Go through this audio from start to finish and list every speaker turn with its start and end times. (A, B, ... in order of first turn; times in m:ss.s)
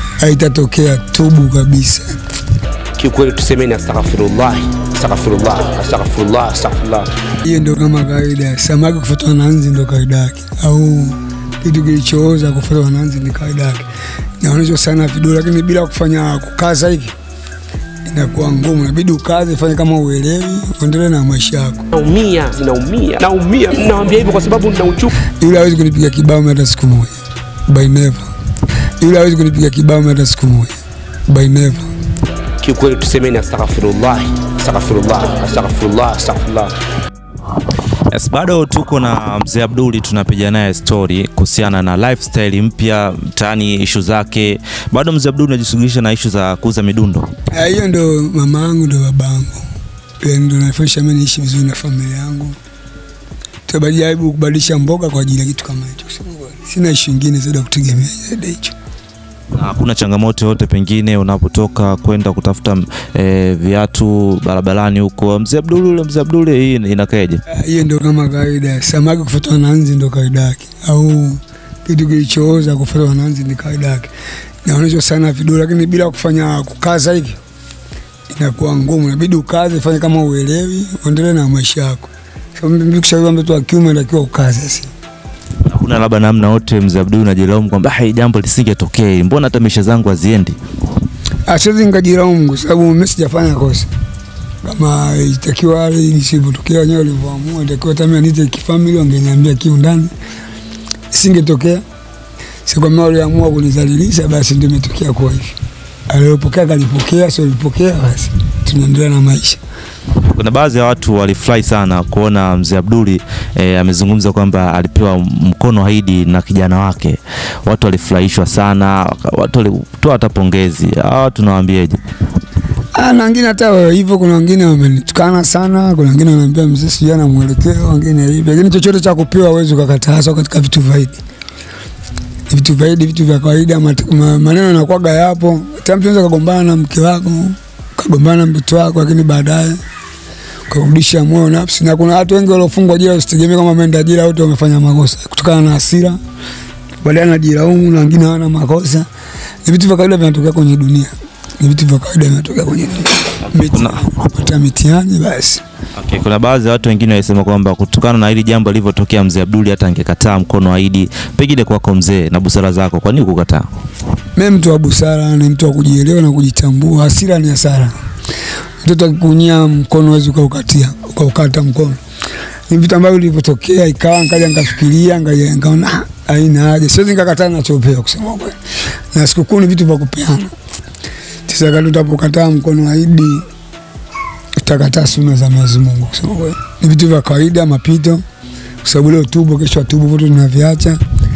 0:00.2-0:02.2 A
0:03.0-0:07.1 B
0:07.4-0:13.9 A
0:14.4-0:17.1 A
0:18.1-0:21.8 A
0:21.9-0:25.1 B
0:25.4-0:28.3 A
0:29.0-0:31.9 A
0:32.6-0:36.7 B
0:38.1-0:47.3 C
0:47.5-0:49.6 A
0:50.2-0:52.6 A
0:53.7-0:58.7 A
0:59.5-1:07.4 C
1:07.5-1:14.1 A
1:14.6-1:17.4 A
1:18.3-1:24.9 A
1:25.7-1:30.6 C
1:31.5-1:33.9 A
1:34.6-1:40.1 A
1:41.1-1:41.8 A
1:42.6-1:45.6 A
1:46.1-1:49.6 A
1:50.2-2:02.0 C
2:02.9-2:11.2 A
2:12.5-2:19.8 A
2:20.7-2:26.2 A
2:27.0-2:29.1 A
2:29.6-2:35.6 A
2:33.6-2:34.0 C
2:36.0-2:43.6 C
2:44.4-2:47.9 A
2:48.8-2:52.0 A
2:52.7-2:58.6 A
2:59.1-3:00.5 A
3:01.5-3:03.4 A
3:04.6-3:08.2 A
3:08.8-3:11.0 A